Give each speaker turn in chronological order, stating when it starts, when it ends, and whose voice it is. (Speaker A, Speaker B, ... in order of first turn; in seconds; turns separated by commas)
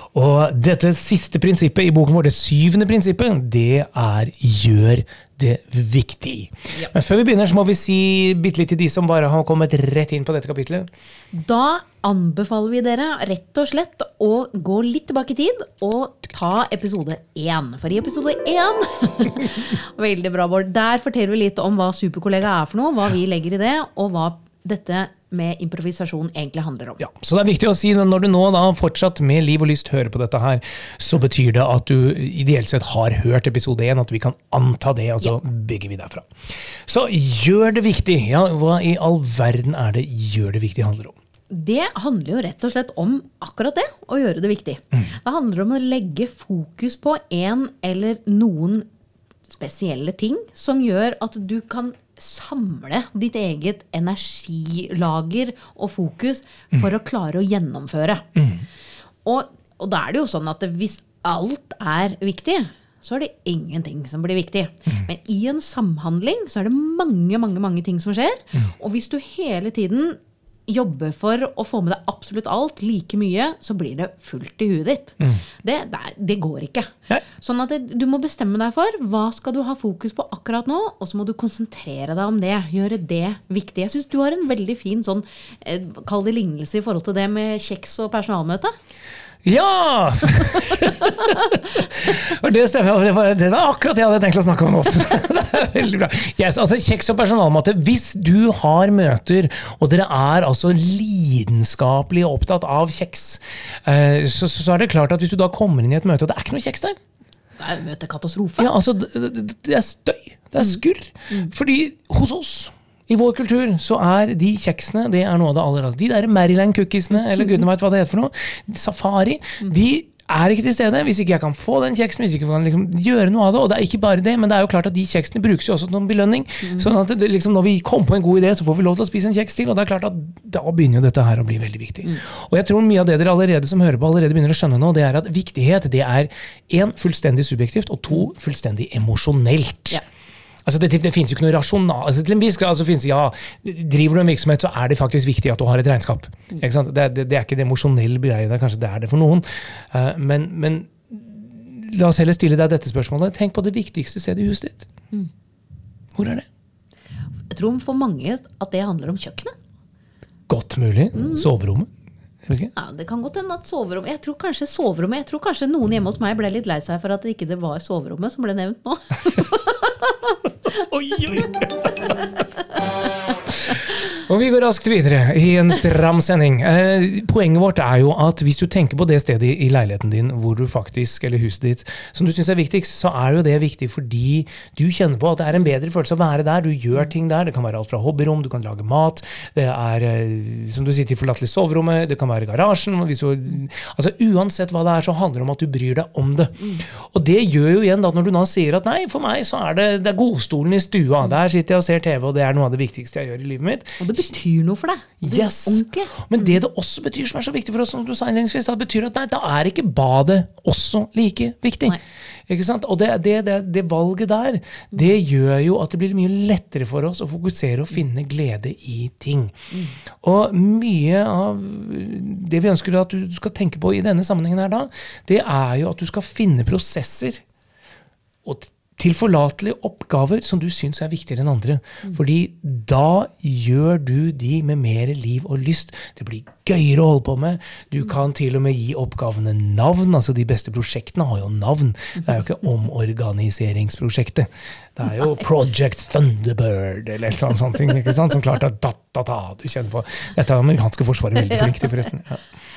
Speaker A: 0.1-10.9, Speaker B: 11.3-27.0, Speaker A: 27.0-36.3, Speaker A: 36.9-41.1, Speaker B: 41.5-48.9, Speaker B: 49.5-58.3, Speaker A: 58.4-58.6, Speaker B: 59.2-88.7, Speaker A: 89.4-107.0, Speaker B: 107.6-108.7, Speaker A: 108.6-140.0, Speaker A: 140.6-154.9, Speaker A: 156.2-156.5, Speaker B: 157.5-159.5, Speaker A: 160.5-161.9, Speaker B: 161.1-161.5, Speaker A: 162.4-162.7, Speaker B: 162.8-170.4, Speaker A: 170.7-172.1, Speaker A: 173.6-204.1, Speaker B: 204.0-206.3, Speaker A: 205.2-219.6, Speaker B: 219.7-219.9, Speaker A: 220.2-227.4, Speaker A: 228.4-252.4, Speaker B: 251.3-252.0